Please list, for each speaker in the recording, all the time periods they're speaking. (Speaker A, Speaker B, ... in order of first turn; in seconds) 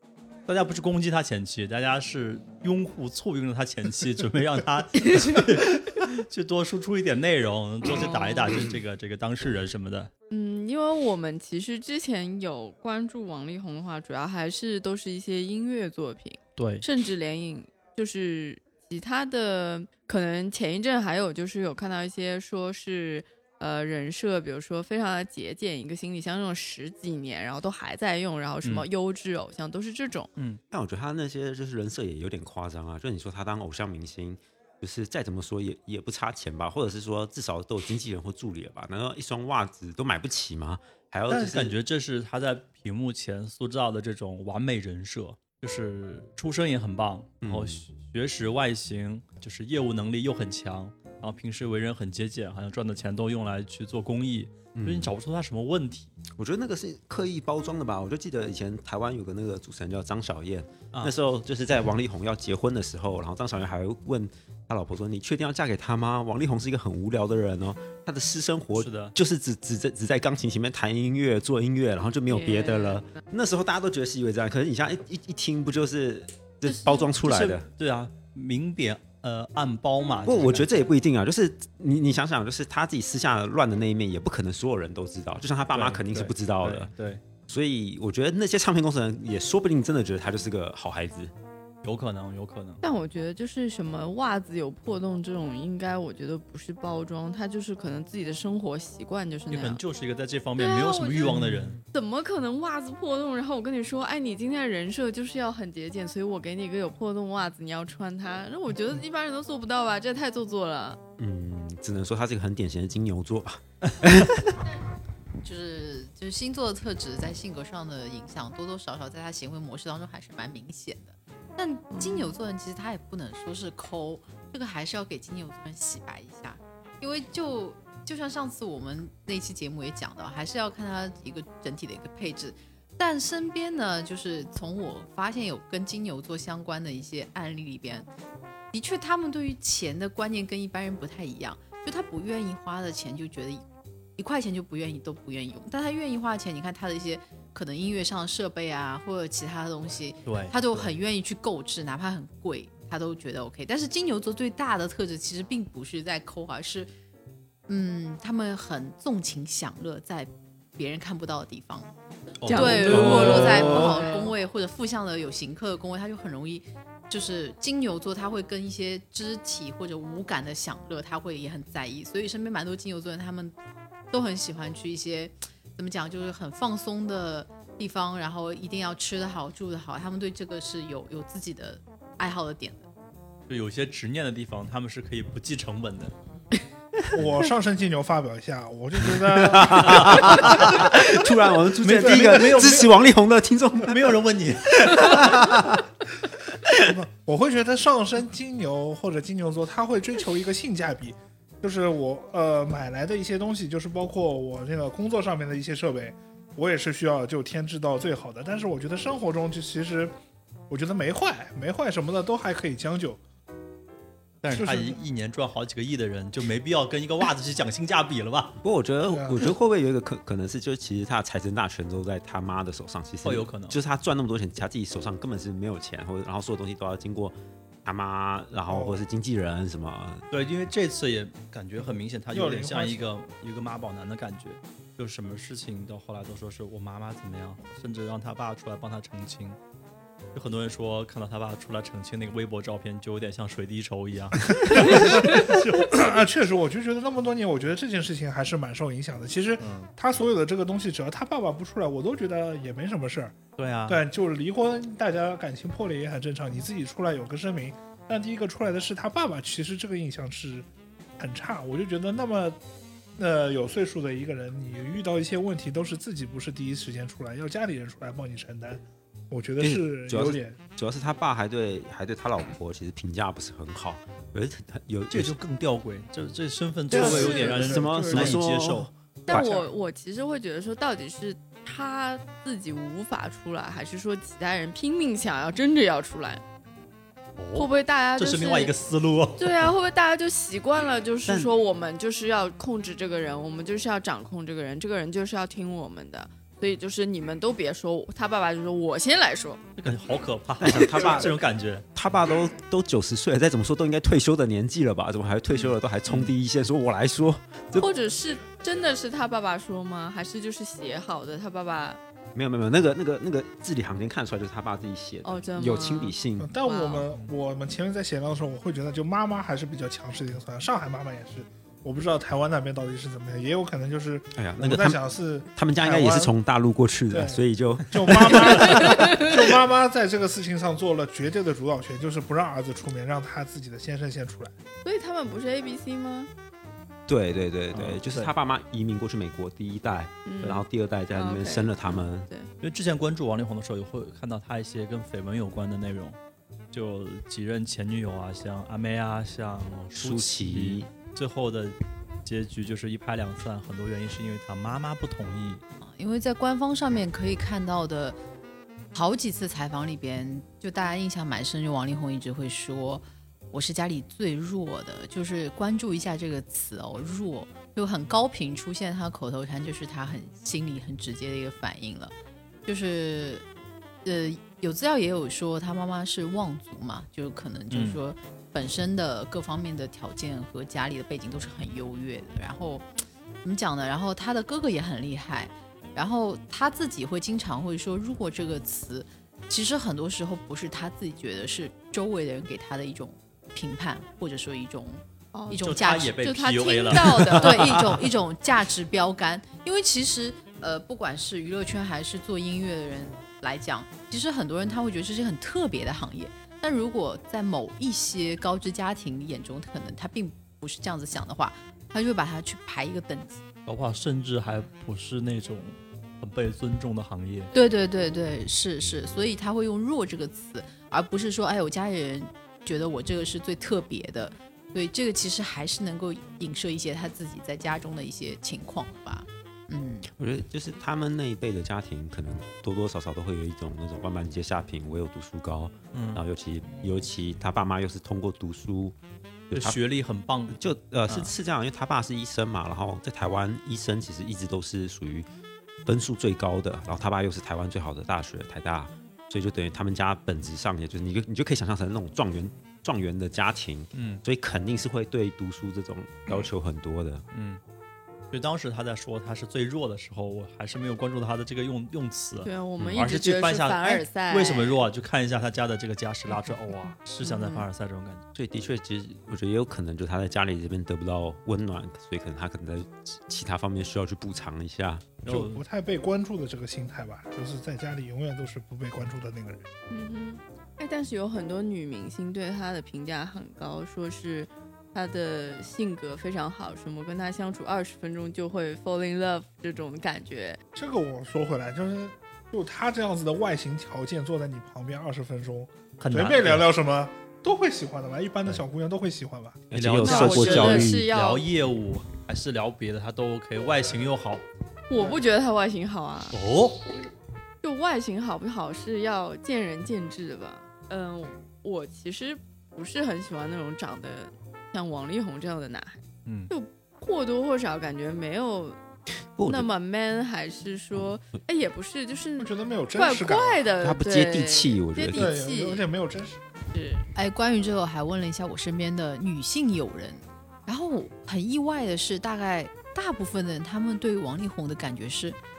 Speaker A: 0.5-10.1, 16.6-16.9, 41.3-56.1, 68.8-69.2, 77.2-80.7, 85.7-87.2, 91.8-92.8, 99.5-101.8, 150.3-150.9, 162.4-163.8, 183.5-186.1, 190.0-190.9, 191.8-192.9, 193.8-195.3, 214.4-218.6, 223.2-223.8, 230.3-239.6, 240.3-245.3, 249.6-249.9, 253.6-254.0, 275.1-278.9, 287.4-289.7, 299.8-301.9, 306.1-306.3, 337.7-338.3, 342.6-346.2, 346.7-355.6, 377.7-378.0, 395.5-398.0, 413.7-417.5, 435.9-436.2, 439.5-441.3, 453.9-454.2, 457.3-457.6, 458.3-468.2, 475.2-475.6, 496.0-496.7, 499.8-504.4, 506.3-506.8, 516.3-516.5
Speaker B: 10.3-30.3, 72.3-73.2, 92.8-99.8, 100.6-101.3, 101.9-111.0, 121.9-122.3, 162.5-164.3, 279.3-286.4, 287.6-288.7, 289.4-299.6, 307.7-312.0, 315.2-317.1, 334.8-336.3, 340.2-342.5, 395.3-397.8, 462.4-464.8, 467.2-467.7, 479.9-490.6, 500.0-501.5, 504.9-506.4, 507.6-518.8, 519.5-525.9, 526.7-527.1
Speaker C: 30.7-41.8, 47.4-47.8, 54.8-55.1, 56.4-77.7, 80.2-86.9, 87.5-91.3, 111.2-114.6, 163.1-163.6, 189.3-194.2, 194.8-195.8, 218.6-230.3, 269.6-275.4, 276.9-279.5, 291.3-291.5, 300.6-301.4, 301.9-307.9, 312.4-316.5, 324.4-325.0, 325.6-329.3, 337.1-342.3, 349.9-350.9, 430.2-438.9, 439.5-439.8, 440.5-445.3, 445.9-457.2, 462.8-463.0, 468.4-475.2, 499.7-501.1, 519.4-519.7, 523.8-525.3
Speaker D: 101.2-101.8, 187.1-191.3, 192.0-192.9, 196.7-210.1, 210.7-213.2, 214.5-215.0, 219.1-219.5, 228.7-229.0, 232.3-233.1, 244.5-253.4, 253.9-260.7, 261.2-262.6, 263.2-270.6, 276.9-278.4, 279.3-279.7, 316.4-326.3, 327.1-334.5, 475.3-479.7, 490.8-499.6, 522.4-523.8, 525.1-526.4
Speaker E: 115.4-138.1, 138.7-143.6, 144.2-156.9, 157.7-161.9, 162.5-173.6, 174.1-182.9, 355.8-358.2, 358.9-372.1, 372.7-373.5, 374.1-382.9, 383.4-396.3, 397.3-413.4, 417.5-430.1, 527.1-535.4